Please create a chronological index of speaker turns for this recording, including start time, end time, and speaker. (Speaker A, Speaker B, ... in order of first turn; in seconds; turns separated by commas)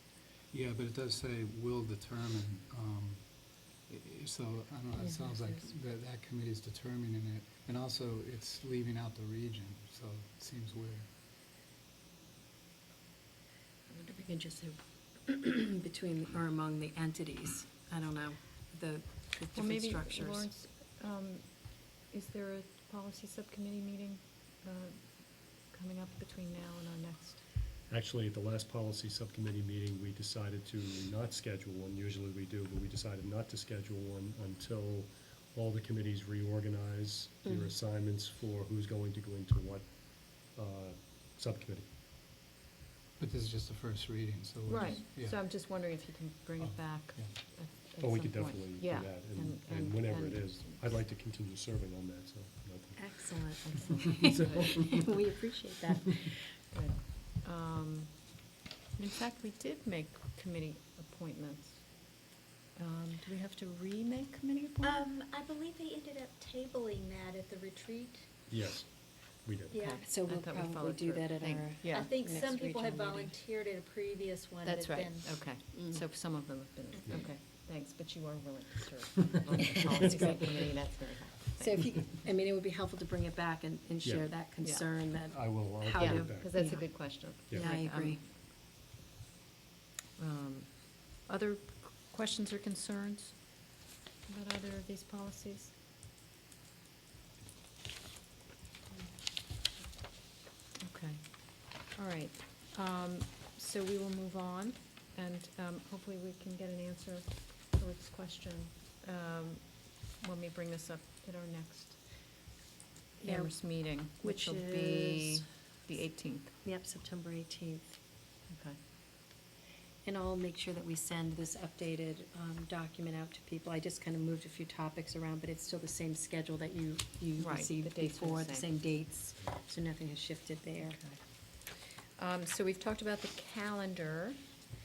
Speaker A: 0.5-11.1, Speaker B: 5.0-5.7, Speaker B: 13.9-20.5, Speaker C: 19.5-27.4, Speaker D: 27.9-41.9, Speaker A: 43.2-45.5, Speaker C: 44.7-50.8, Speaker A: 46.6-47.3, Speaker D: 48.0-55.3, Speaker B: 53.0-56.4, Speaker C: 53.6-55.0, Speaker C: 56.7-58.4, Speaker C: 58.9-62.1, Speaker C: 62.7-65.0, Speaker E: 64.8-68.3, Speaker D: 68.5-69.8, Speaker E: 69.7-70.0, Speaker C: 69.7-72.3, Speaker B: 70.0-73.3, Speaker E: 71.9-76.1, Speaker C: 74.6-82.2, Speaker B: 81.6-88.2, Speaker D: 84.0-84.4, Speaker C: 84.6-88.4, Speaker D: 85.2-86.6, Speaker D: 87.2-87.7, Speaker C: 90.2-93.6, Speaker C: 94.2-95.7, Speaker C: 100.8-112.1, Speaker C: 113.2-116.5, Speaker B: 113.2-115.4, Speaker B: 116.6-118.0, Speaker C: 118.5-118.8, Speaker B: 120.0-131.0, Speaker C: 127.4-128.7, Speaker C: 130.8-131.2, Speaker C: 132.1-134.5